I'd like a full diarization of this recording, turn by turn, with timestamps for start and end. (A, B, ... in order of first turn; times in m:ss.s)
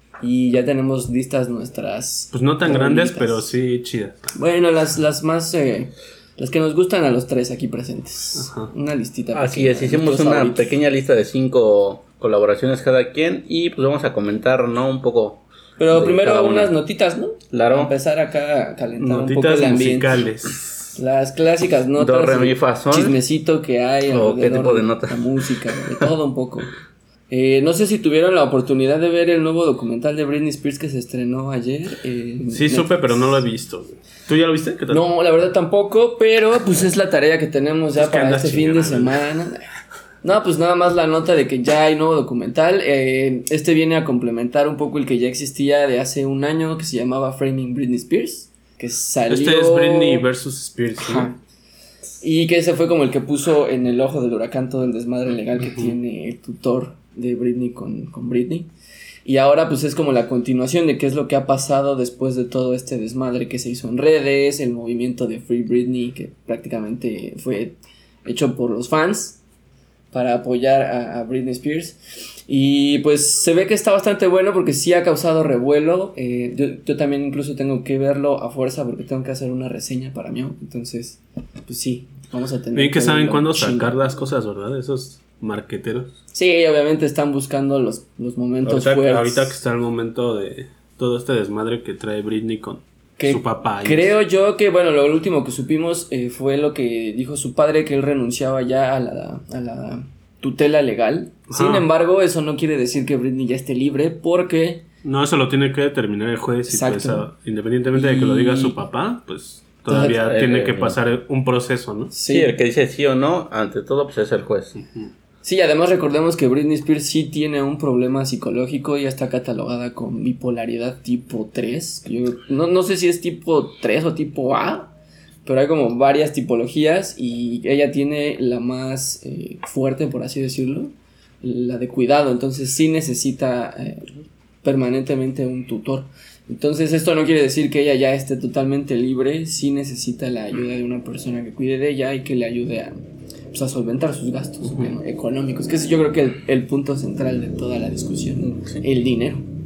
0:00.2-0:03.5 A
0:02.3-0:04.3 B
0:04.3-0:10.7 A
0:08.4-0:08.7 B
0:09.3-0:16.7 C
0:15.8-0:20.2 A
0:17.5-0:17.9 C
0:19.0-0:21.0 B
0:21.0-0:26.7 A
0:22.0-0:23.2 C
0:24.1-0:25.4 C
0:27.3-0:33.4 A
0:32.5-0:35.0 B
0:34.9-0:39.7 A
0:38.0-0:39.3 B
0:40.2-0:50.3 A
0:49.3-0:51.3 B
0:51.0-0:51.4 A
0:52.2-0:58.7 A
0:55.6-0:56.0 B
0:59.2-1:09.4 A
1:10.1-1:23.9 A
1:22.7-1:26.1 B
1:26.3-1:29.6 A
1:28.6-1:34.2 B
1:33.2-1:44.8 A
1:41.5-1:41.9 B
1:45.0-1:52.1 B
1:46.7-1:47.3 A
1:47.9-1:48.8 A
1:49.9-1:50.2 A
1:50.1-1:51.0 C
1:52.1-1:52.5 A
1:52.3-1:54.8 C
1:54.8-1:55.1 B
1:55.4-2:04.9 A
2:05.4-2:14.1 A
2:14.6-2:23.0 A
2:23.5-2:29.4 A
2:24.6-2:24.9 B
2:28.5-2:28.8 C